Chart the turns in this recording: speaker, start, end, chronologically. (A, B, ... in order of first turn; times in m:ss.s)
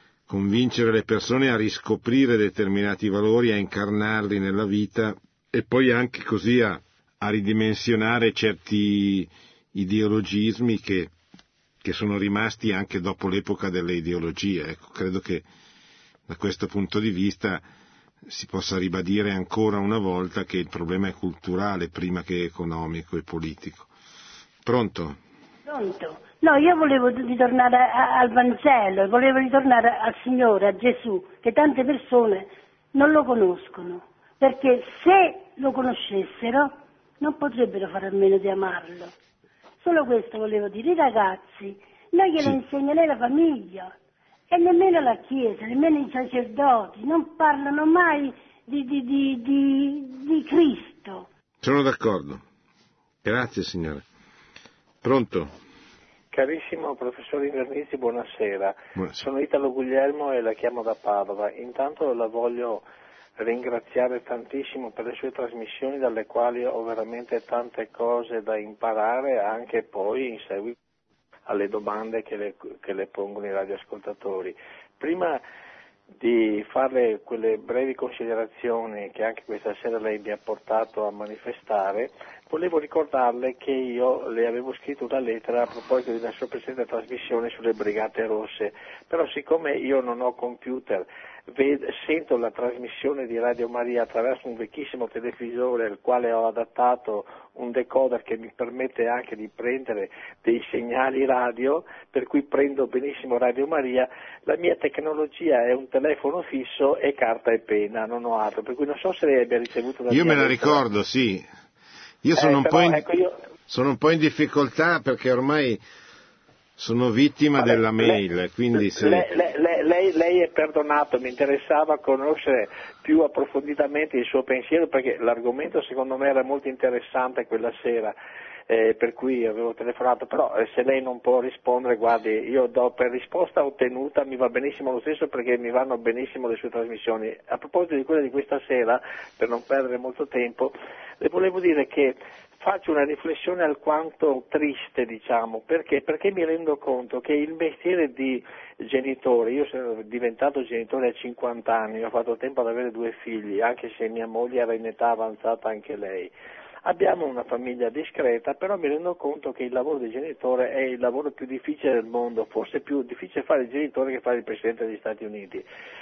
0:00.3-0:11.1 A
0:11.8-0:15.4 A
0:16.3-0:17.6 A
0:18.3-0:23.9 A
0:24.6-0:25.2 A
0:25.6-0:39.1 B
0:39.8-0:43.9 B
0:44.5-0:51.3 B
0:51.6-0:52.4 A
0:53.2-0:54.0 A
0:55.0-0:55.5 A
0:56.3-1:02.8 C
0:59.0-0:59.2 A
1:03.4-1:10.7 C
1:11.4-1:15.4 C
1:16.2-1:50.8 C
1:50.1-1:51.5 A
1:52.2-1:53.0 A
1:52.3-1:53.4 C
1:53.7-1:55.8 A
1:56.8-1:59.2 A
1:57.6-1:58.2 C
1:58.7-2:08.1 C
2:08.7-2:45.6 C